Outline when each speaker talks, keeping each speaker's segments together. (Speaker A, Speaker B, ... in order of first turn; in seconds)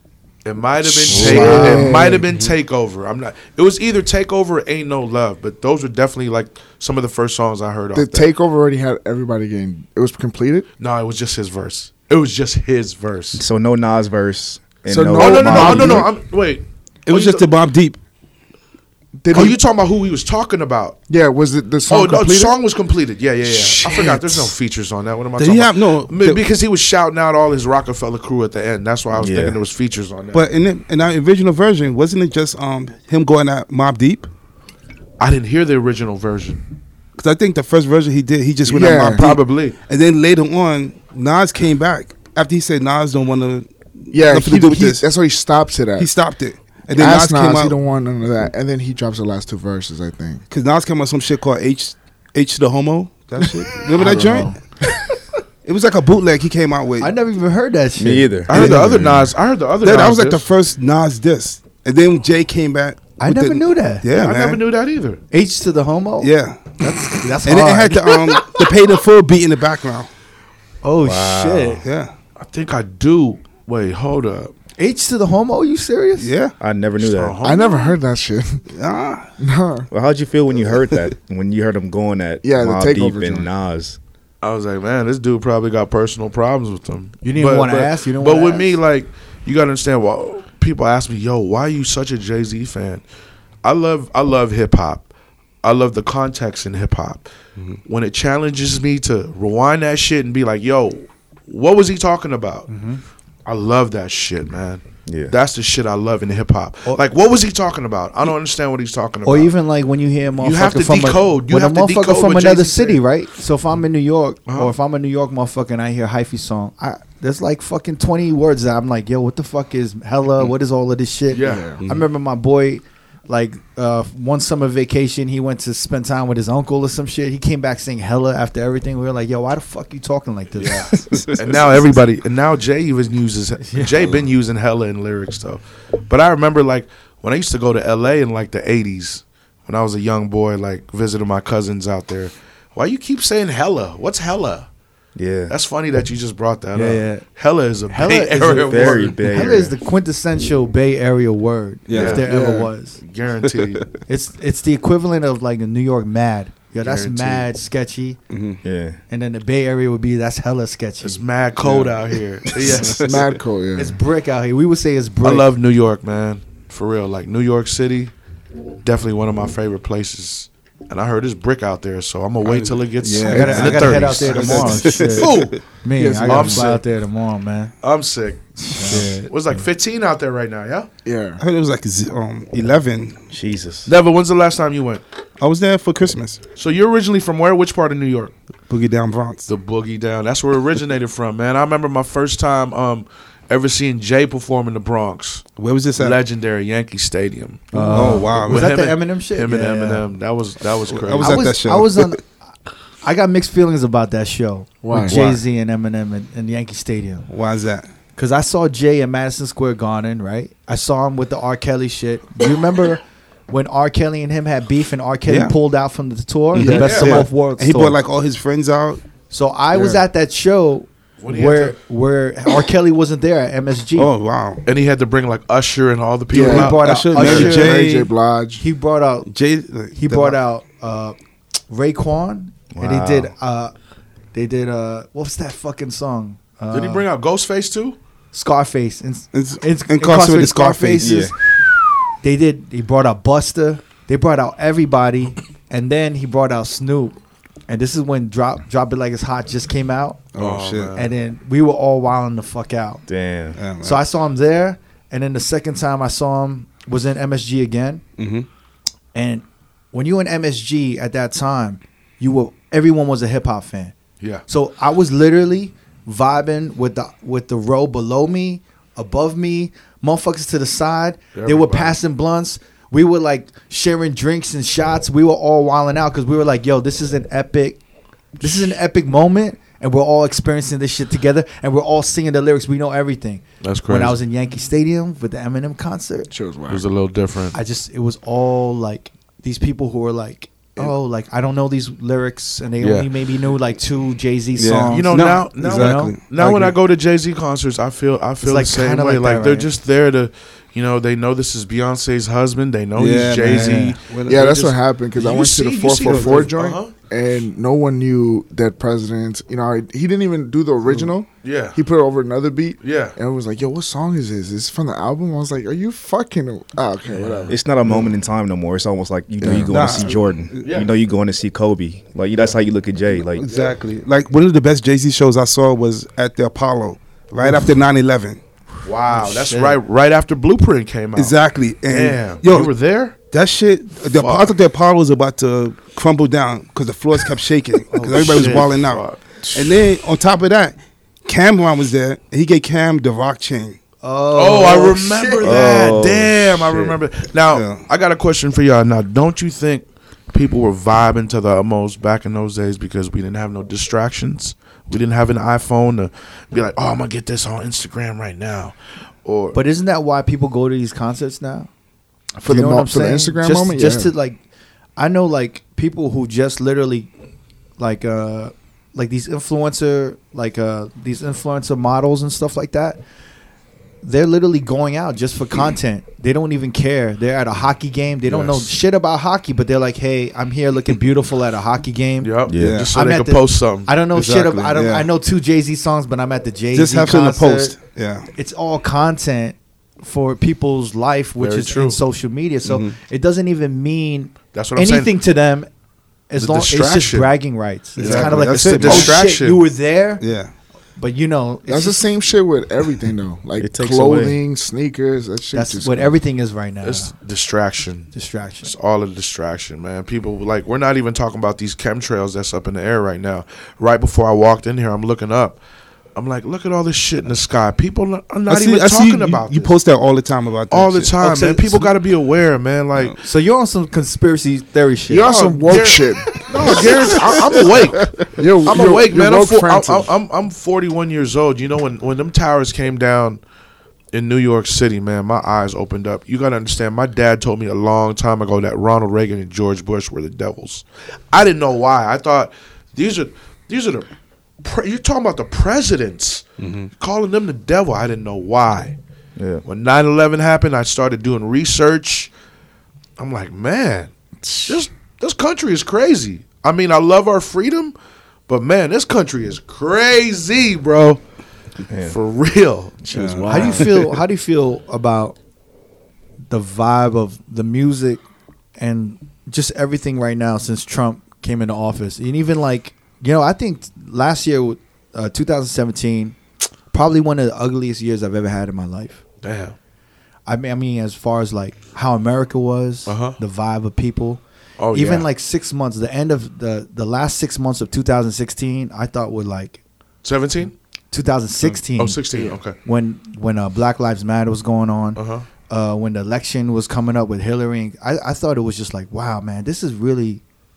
Speaker A: 0.4-8.3, 10.8-13.4, 15.1-17.5, 19.3-21.0, 21.9-30.5, 35.2-36.6, 39.1-39.8, 58.5-60.5, 64.2-65.2, 72.4-74.5, 77.0-78.0, 84.4-93.0, 93.6-95.1, 95.6-97.3, 97.8-102.7, 103.5-109.5, 110.4-113.0, 114.5-114.7, 121.3-121.8, 130.6-144.7, 145.5-149.5, 151.9-152.3, 153.0-153.9, 156.8-157.4, 161.0-163.2, 165.2-168.1, 168.8-175.6, 176.3-176.8, 177.8-180.9, 183.9-185.0, 186.6-188.3, 189.5-195.5, 196.0-201.5, 216.6-217.3, 221.2-221.8, 224.7-227.7, 236.7-238.0, 250.4-251.1, 271.4-272.0, 283.6-284.2, 286.7-287.6, 292.8-293.1, 294.9-306.9, 311.4-311.8, 312.8-313.2, 320.6-320.9, 323.5-323.7, 328.8-331.4, 331.9-333.1, 334.2-334.5, 338.1-339.8, 344.4-359.6, 382.2-383.9, 391.4-392.0, 394.5-395.1, 396.4-397.3, 398.0-399.6, 406.8-408.1, 408.6-415.6, 416.2-419.8, 420.7-423.2, 425.3-433.4, 434.1-444.1, 444.6-446.5, 447.0-449.0, 449.6-452.3, 453.2-454.1, 454.6-457.9, 458.5-461.2, 462.0-463.9, 479.4-479.8, 483.1-483.4, 484.8-485.3, 490.2-490.7, 492.0-492.8, 495.2-495.5
Speaker B: 0.8-2.2, 7.9-10.7, 14.9-16.1, 19.2-19.6, 21.1-22.6, 23.5-24.4, 38.7-39.3, 44.1-46.1, 46.9-50.4, 77.4-78.7, 79.4-79.9, 82.4-83.5, 121.4-121.8, 152.2-152.7, 162.8-164.0, 176.0-176.8, 181.1-181.4, 204.8-205.2, 226.3-228.6, 286.3-286.8, 304.3-317.6, 319.4-320.1, 362.4-364.1, 401.7-406.1, 425.1-427.6, 428.4-430.1, 454.4-454.8
Speaker C: 1.1-2.1, 53.9-54.6, 57.0-58.6, 63.2-64.1, 65.3-68.5, 70.8-71.8, 74.8-76.3, 87.2-88.8, 102.7-103.0, 109.2-130.9, 133.7-134.0, 146.7-147.2, 147.9-153.0, 154.1-158.2, 159.1-161.2, 163.8-165.5, 173.3-177.7, 178.6-179.7, 197.7-200.1, 201.2-202.3, 203.0-207.3, 208.2-218.0, 219.3-224.1, 226.3-227.8, 228.6-229.3, 229.9-231.2, 231.7-233.7, 234.3-237.1, 238.3-241.3, 242.2-247.2, 247.7-250.2, 250.9-253.1, 253.8-258.0, 259.1-263.9, 264.5-277.8, 278.4-286.3, 287.5-296.2, 298.4-299.7, 303.4-304.0, 329.1-329.8, 337.9-338.7, 344.0-345.9, 359.5-361.7, 362.4-364.4, 365.0-367.1, 367.8-373.0, 374.0-387.8, 388.3-395.7, 396.3-400.2, 401.0-402.0, 405.5-407.1, 408.1-408.7, 423.2-425.4, 463.5-465.4, 466.5-468.2, 468.8-476.4, 476.9-479.2, 480.5-484.4, 484.9-489.8, 491.1-492.2, 492.8-500.4
Speaker D: 13.3-16.1, 29.1-29.6, 58.0-59.3, 71.0-71.8, 76.6-77.4, 79.9-84.0, 105.1-105.3, 145.2-145.5, 148.5-149.8, 158.6-159.0, 183.3-183.9, 232.7-233.3, 241.0-241.3, 253.1-253.6, 317.5-323.4, 345.4-347.0, 382.5-382.9, 403.6-404.4, 449.4-449.6, 461.9-462.2
Speaker E: 17.1-18.0, 25.4-26.4, 30.3-34.3, 37.2-45.1, 46.0-47.8, 50.5-54.5, 55.6-57.1, 58.5-59.2, 59.8-64.6, 66.2-70.1, 71.8-72.1, 76.2-76.5, 78.7-79.3, 121.8-122.0, 131.0-131.4, 151.9-152.2, 153.6-153.9, 158.3-158.6, 161.7-161.9, 162.5-163.3, 172.4-175.6, 178.9-179.2, 181.4-183.2, 185.4-186.4, 188.7-189.5, 195.6-196.2, 197.8-198.7, 200.9-202.2, 207.3-207.9, 215.3-215.6, 216.5-219.0, 224.0-224.6, 226.7-228.1, 229.3-230.4, 239.3-241.2, 250.3-250.9, 253.6-254.0, 258.2-258.5, 294.6-296.8, 303.0-304.5, 306.1-306.5, 319.6-320.7, 323.2-328.4, 331.2-332.7, 333.3-343.8, 347.5-347.8, 378.3-378.7, 382.6-382.9, 384.1-385.1, 386.7-388.3, 392.6-393.0, 398.0-399.2, 400.2-400.5, 418.5-421.9, 446.6-446.9, 463.1-464.0